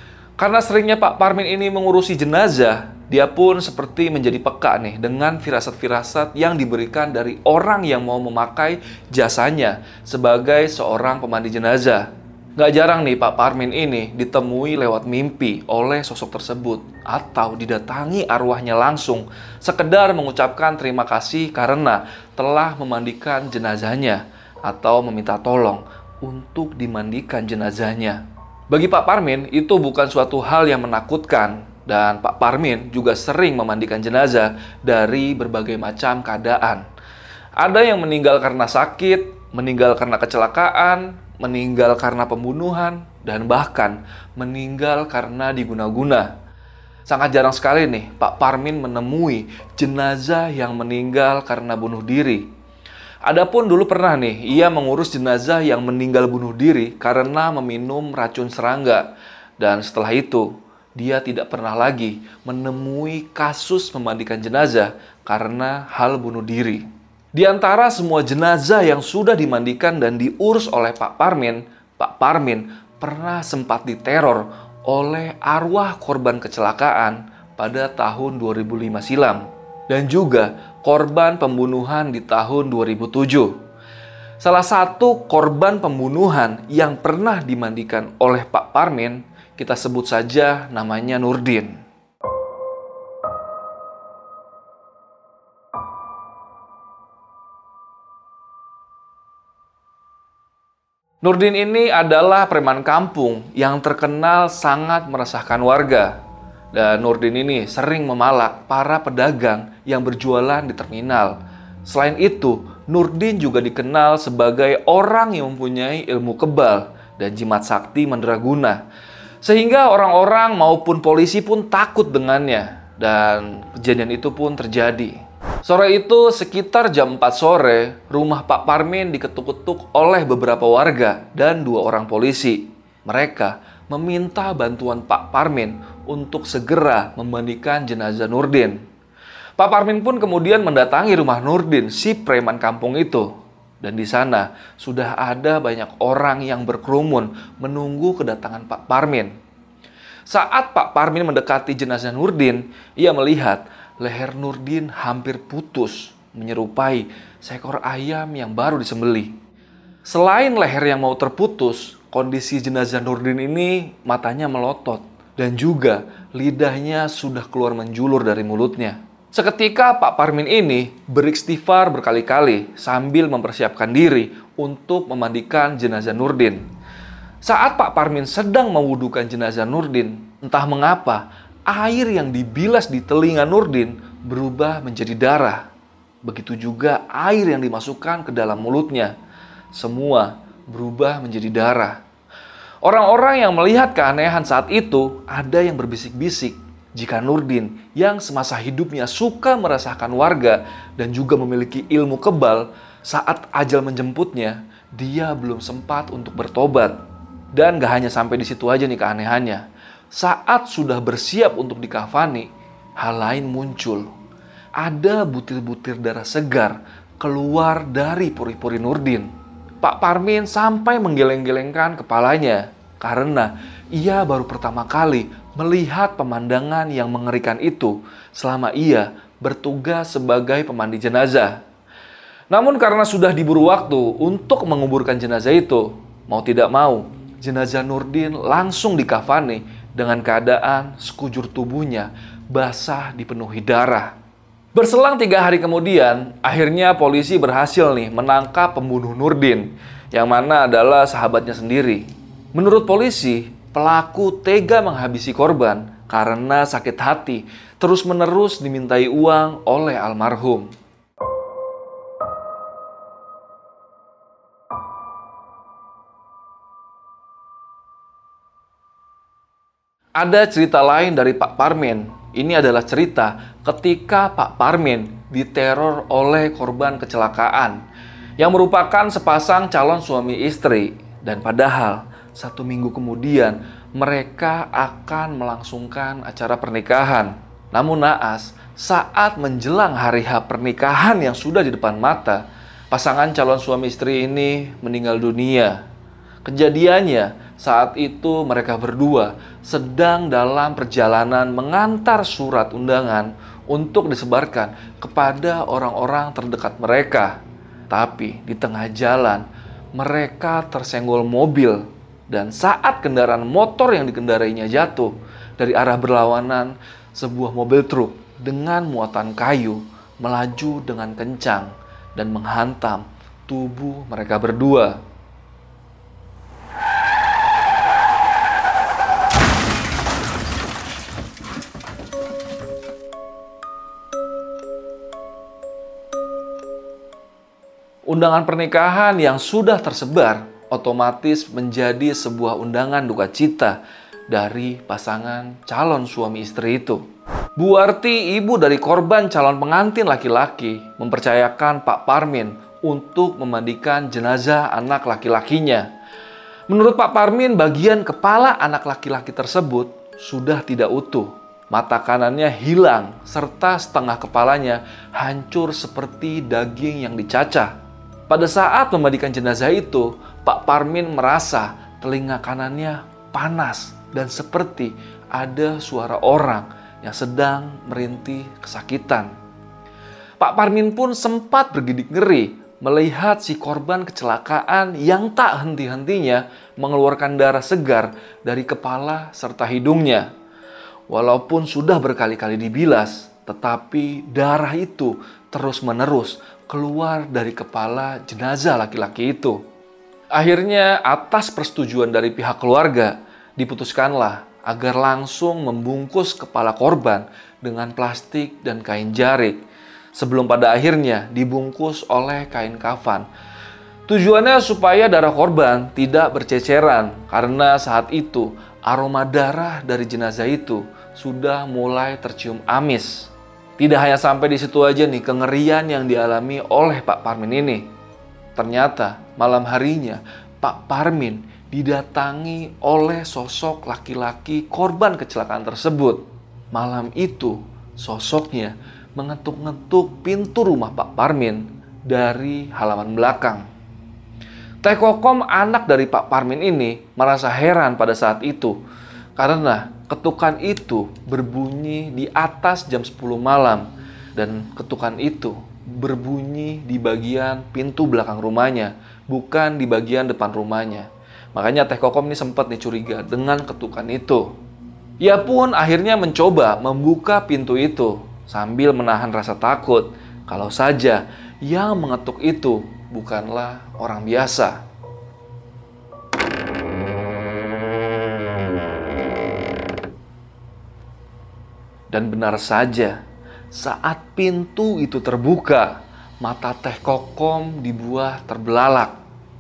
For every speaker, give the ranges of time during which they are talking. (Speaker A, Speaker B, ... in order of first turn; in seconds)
Speaker A: 0.4-36.9, 37.6-46.3, 47.1-52.5, 53.3-59.1, 59.6-83.6, 84.4-91.8, 101.2-106.2, 106.7-118.8, 119.4-138.8, 139.6-149.3, 150.3-159.4, 160.1-176.7, 177.4-185.7, 186.2-189.1, 189.7-192.0, 192.8-207.0, 207.5-212.5, 213.0-214.1, 214.8-219.3, 219.8-231.6, 232.5-244.1, 244.8-260.7, 270.2-277.8, 278.4-295.8, 296.4-307.4, 307.9-325.0, 338.1-343.8, 344.3-347.0, 347.6-355.9, 356.7-367.7, 368.3-379.3, 380.4-390.3, 391.1-399.6, 400.4-409.6, 410.2-413.3, 414.1-427.9, 428.6-443.7, 444.8-448.8, 449.4-464.5, 465.2-474.8, 482.1-483.2, 483.7-489.2